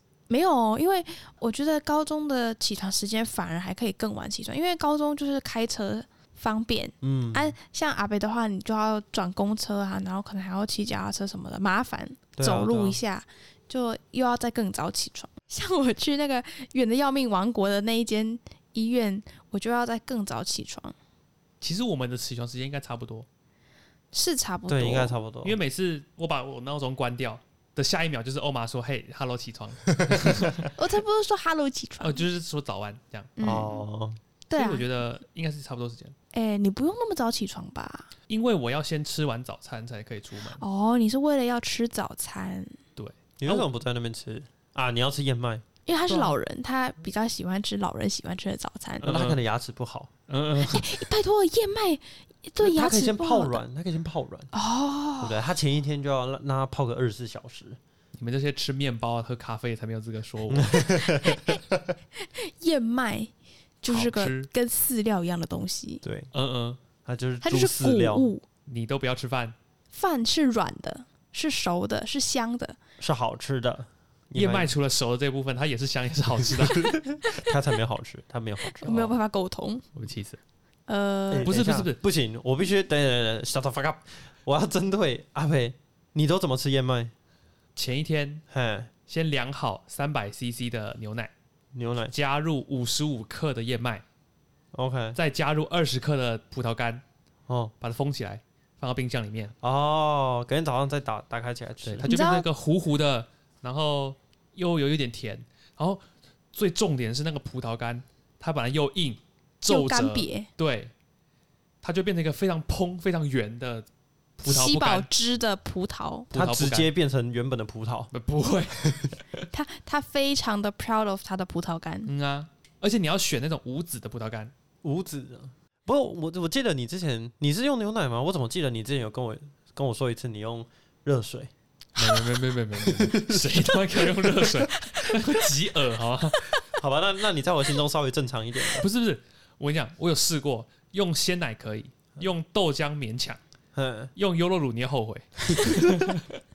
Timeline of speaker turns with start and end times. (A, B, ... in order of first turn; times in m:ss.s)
0:00.3-0:21.0 A
0:07.0-0:07.6 B
0:12.4-0:13.0 B
0:21.6-0:23.3 C
0:24.1-0:25.2 A
0:24.7-0:25.6 B
0:25.4-0:30.7 C
0:30.1-0:30.4 B
0:30.7-0:32.2 A
0:32.0-0:33.3 C
0:33.4-0:33.8 A
0:33.4-0:34.2 B
0:34.5-0:34.8 A
0:34.5-0:36.2 C
0:36.3-0:38.1 A
0:38.3-0:40.6 C
0:40.6-0:42.8 A
0:43.0-0:43.7 C
0:43.4-0:45.6 B
0:45.9-0:49.1 A
0:46.1-0:46.4 C
0:49.0-0:49.4 C
0:49.0-0:50.1 B
0:50.3-0:51.0 C
0:50.7-0:53.6 A
0:52.6-0:54.5 B
0:54.5-0:55.4 A
0:55.2-0:57.8 B
0:58.2-1:00.9 C
1:00.5-1:01.9 B
1:01.0-1:01.6 A
1:02.2-1:03.3 A
1:03.8-1:06.0 A
1:03.9-1:04.5 C
1:06.0-1:06.3 B
1:06.3-1:06.8 C
1:07.0-1:08.3 B
1:07.4-1:08.4 A
1:08.7-1:09.6 C
1:09.9-1:12.8 A
1:13.0-1:14.7 B
1:14.3-1:17.0 C
1:16.4-1:19.1 B
1:18.8-1:19.8 A
1:20.0-1:20.4 C
1:20.9-1:21.5 A
1:21.3-1:27.1 B
1:21.5-1:22.0 C
1:27.8-1:28.4 C
1:28.5-1:28.9 B
1:29.1-1:31.3 C
1:31.7-1:32.1 B
1:32.1-1:34.0 C
1:34.7-1:35.2 B
1:35.2-1:37.0 C
1:37.5-1:37.7 B
1:37.8-1:39.5 C
1:39.6-1:42.1 B
1:41.8-1:50.9 C
1:42.0-1:42.4 A
1:49.6-1:50.5 A
1:51.8-1:53.9 C
1:54.4-1:55.1 C
1:54.4-1:56.3 A
1:56.3-1:58.1 B
1:56.3-1:56.9 C
1:58.1-1:59.2 C
1:58.8-1:59.1 B
1:59.5-2:02.1 A
2:02.1-2:04.5 C
2:04.8-2:14.7 B
2:12.0-2:16.5 C
2:16.7-2:18.9 B
2:18.8-2:23.4 C
2:23.8-2:24.1 B
2:24.2-2:26.3 C
2:25.5-2:25.9 A